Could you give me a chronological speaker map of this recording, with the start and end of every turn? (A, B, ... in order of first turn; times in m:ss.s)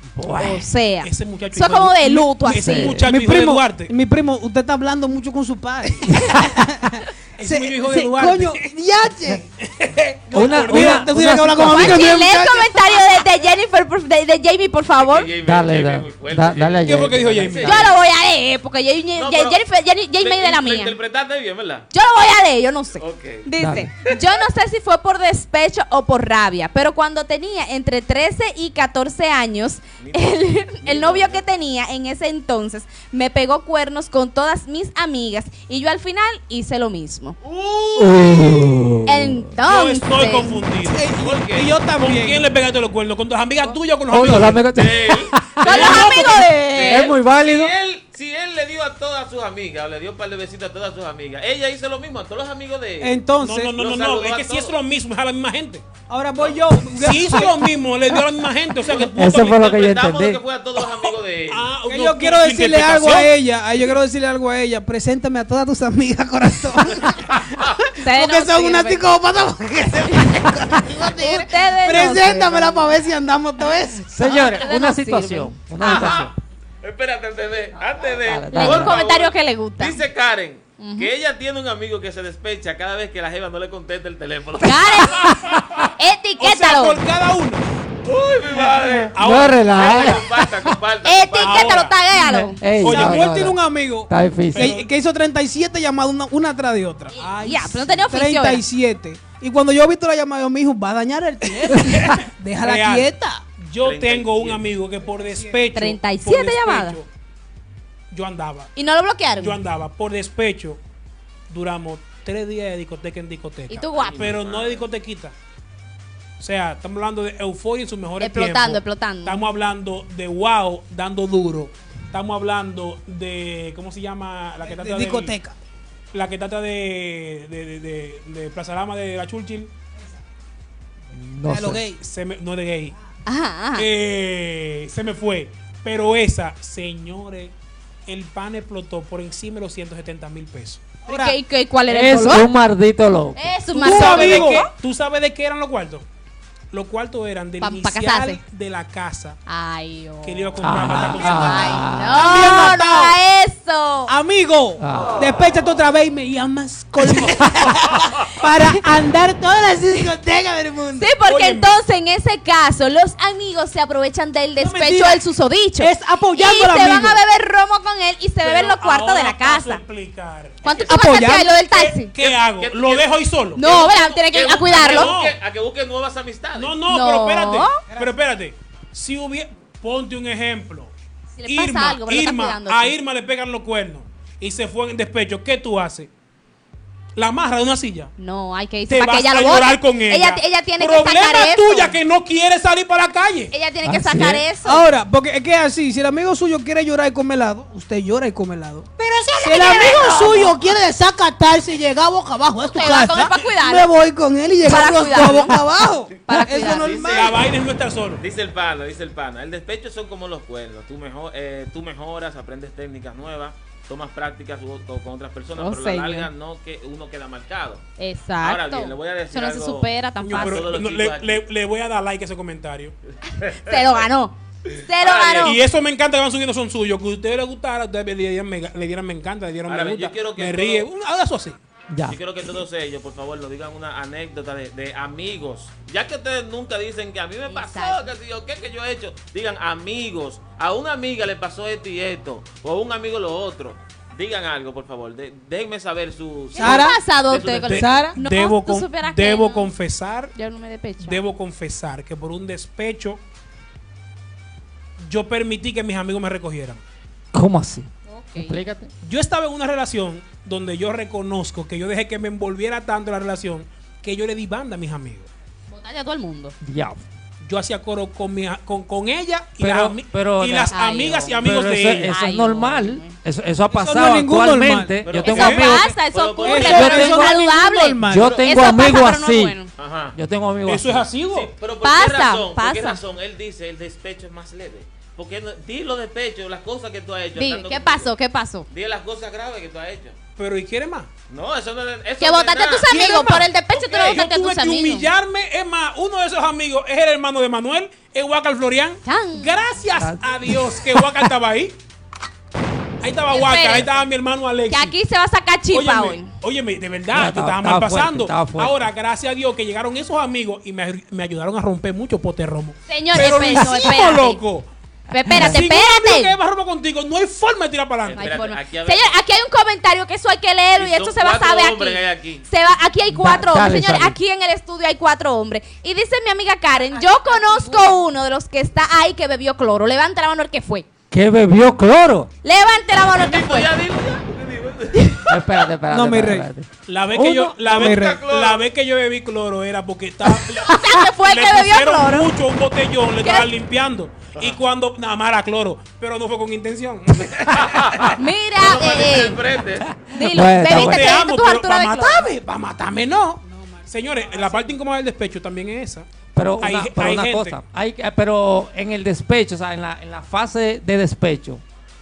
0:00.2-0:00.7 A
0:00.3-0:03.0 B
0:01.0-0:03.9 C
0:02.5-0:03.1 A
0:03.0-0:09.4 D
0:07.4-0:08.6 C
0:09.5-0:11.1 C
0:10.3-0:12.9 D
0:10.3-0:12.1 A
0:11.6-0:15.3 B
0:14.9-0:17.8 E
0:15.4-0:17.8 A
0:16.8-0:17.9 C
0:17.6-0:20.9 B
0:19.1-0:19.6 E
0:20.2-0:21.9 E
0:21.9-0:37.4 B
0:23.0-0:23.5 E
0:23.6-0:23.9 A
0:30.0-0:31.4 E
0:37.4-0:39.0 E
0:38.0-0:39.5 A
0:39.0-0:40.7 B
0:39.6-0:41.1 C
0:40.8-0:42.4 D
0:41.2-0:41.7 E
0:42.0-0:44.7 C
0:44.1-0:46.1 A
0:44.2-0:53.2 E
0:45.6-0:47.0 B
0:45.6-0:46.9 D
0:46.8-0:47.7 A
0:53.0-0:53.8 D
0:53.4-0:55.8 C
0:53.8-0:54.8 E
0:56.1-0:57.6 D
0:56.9-0:59.6 C
0:58.9-1:00.4 A
0:58.9-1:01.7 E
1:01.5-1:03.3 C
1:01.9-1:14.1 D
1:07.5-1:07.8 E
1:08.0-1:09.0 B
1:10.0-1:12.9 B
1:14.0-1:16.3 A
1:14.2-1:16.3 B
1:15.8-1:25.8 E
1:18.0-1:18.9 A
1:18.5-1:20.0 B
1:20.8-1:21.1 B
1:24.6-1:27.0 B
1:26.4-1:27.6 C
1:28.0-1:31.8 E
1:28.5-1:30.2 C
1:29.2-1:30.4 A
1:31.0-1:32.6 B
1:31.4-1:32.0 C
1:32.1-1:34.7 A
1:32.8-1:33.5 C
1:32.8-1:37.2 D
1:34.5-1:34.9 C
1:37.1-1:38.6 B
1:37.2-1:38.1 C
1:38.1-1:43.4 D
1:41.7-1:47.1 C
1:43.8-1:44.7 E
1:45.7-1:47.0 B
1:48.1-1:48.7 C
1:48.8-1:49.6 B
1:49.4-1:50.8 C
1:51.5-1:55.3 C
1:53.7-1:54.3 B
1:53.8-1:54.8 E
1:56.4-2:05.3 C
1:58.2-1:59.4 B
2:04.6-2:05.6 D
2:06.1-2:09.7 C
2:11.1-2:11.8 A
2:11.4-2:12.0 D
2:12.0-2:12.9 C
2:13.2-2:13.9 B
2:13.7-2:17.5 C
2:18.0-2:20.9 C
2:21.0-2:21.4 D
2:21.0-2:22.5 B
2:21.9-2:23.5 A
2:23.4-2:24.7 B
2:23.7-2:26.0 C
2:23.8-2:24.6 D
2:26.7-2:29.4 C
2:27.6-2:28.4 B
2:29.5-2:34.1 B
2:30.2-2:32.7 C
2:30.6-2:32.3 A
2:32.1-2:33.2 D
2:34.1-2:41.1 D
2:34.8-2:35.2 A
2:41.0-2:49.8 B
2:41.2-2:41.8 C
2:44.6-2:44.9 C
2:44.7-2:45.2 D
2:45.8-2:47.2 D
2:48.4-2:50.6 C
2:50.6-2:52.1 B
2:50.6-2:51.2 E
2:50.9-2:51.6 D
2:51.6-2:55.4 C
2:52.2-2:56.8 E
2:53.5-2:55.1 B
2:56.5-3:00.9 C
2:56.9-2:57.8 B
2:57.8-2:58.1 D
3:01.4-3:02.9 B
3:01.4-3:06.1 C
3:07.2-3:08.1 C
3:08.2-3:12.0 B
3:08.9-3:13.5 C
3:13.5-3:14.8 B
3:13.8-3:14.4 A
3:14.6-3:27.4 D
3:19.0-3:20.6 B
3:22.6-3:23.9 B
3:24.6-3:25.6 B
3:26.1-3:27.4 E
3:26.2-3:27.1 B
3:27.1-3:28.2 C
3:28.2-3:37.8 E
3:35.6-3:36.3 B
3:38.0-3:40.8 B
3:38.4-3:41.4 E
3:40.2-3:43.0 C
3:43.3-3:44.0 E
3:43.4-3:45.6 B
3:45.0-3:45.6 E
3:45.4-3:51.6 C
3:49.7-3:50.9 E
3:51.9-3:52.2 A
3:52.1-4:08.0 E
3:57.5-3:58.1 B
4:06.5-4:09.7 B
4:06.6-4:07.0 D
4:07.6-4:10.3 C
4:07.7-4:08.2 D
4:10.3-4:11.2 B
4:11.0-4:13.2 C
4:15.0-4:16.8 C
4:17.3-4:18.9 A
4:18.1-4:18.6 B
4:19.0-4:25.3 C
4:25.7-4:26.5 B
4:26.6-4:27.0 A
4:27.4-4:32.1 C
4:29.6-4:30.7 A
4:30.7-4:31.5 B
4:31.2-4:36.0 A
4:32.0-4:33.2 B
4:33.7-4:35.0 D
4:35.0-4:37.1 E
4:35.2-4:39.7 B
4:35.3-4:35.6 C
4:36.4-4:38.4 D
4:36.7-4:37.3 A
4:38.0-4:39.6 A
4:38.2-4:38.4 E
4:39.8-4:40.2 E
4:40.1-4:41.1 A
4:40.6-4:41.5 C
4:41.3-4:48.1 E
4:41.8-4:43.0 B
4:47.4-4:48.7 B
4:48.7-4:50.2 E
4:50.4-4:51.1 C
4:51.3-4:53.1 E
4:52.2-4:55.1 B
4:52.9-5:01.8 C
4:53.7-4:54.2 E
4:59.0-4:59.6 B
5:00.0-5:00.5 A
5:03.0-5:05.0 C
5:03.3-5:03.9 B
5:04.7-5:06.3 B
5:05.7-5:14.7 C
5:07.1-5:08.9 A
5:12.9-5:14.4 B
5:15.1-5:16.4 B
5:15.3-5:15.6 A
5:15.3-5:18.3 C
5:18.0-5:19.2 E
5:18.2-5:30.9 B
5:20.8-5:22.5 E
5:23.1-5:24.2 A
5:31.1-5:32.3 A
5:32.4-5:33.7 B
5:33.1-5:35.5 E
5:35.3-5:37.7 A
5:35.9-5:36.5 D
5:36.8-5:48.2 C
5:37.6-5:38.6 E
5:37.7-5:38.2 D
5:40.5-5:42.3 B
5:43.2-5:43.5 B
5:47.5-5:50.0 E
5:48.1-5:49.4 B
5:49.9-5:51.2 A
5:50.1-5:52.3 B
5:50.5-5:56.1 C
5:53.4-5:54.7 D
5:56.3-6:01.6 A
5:56.6-5:57.6 C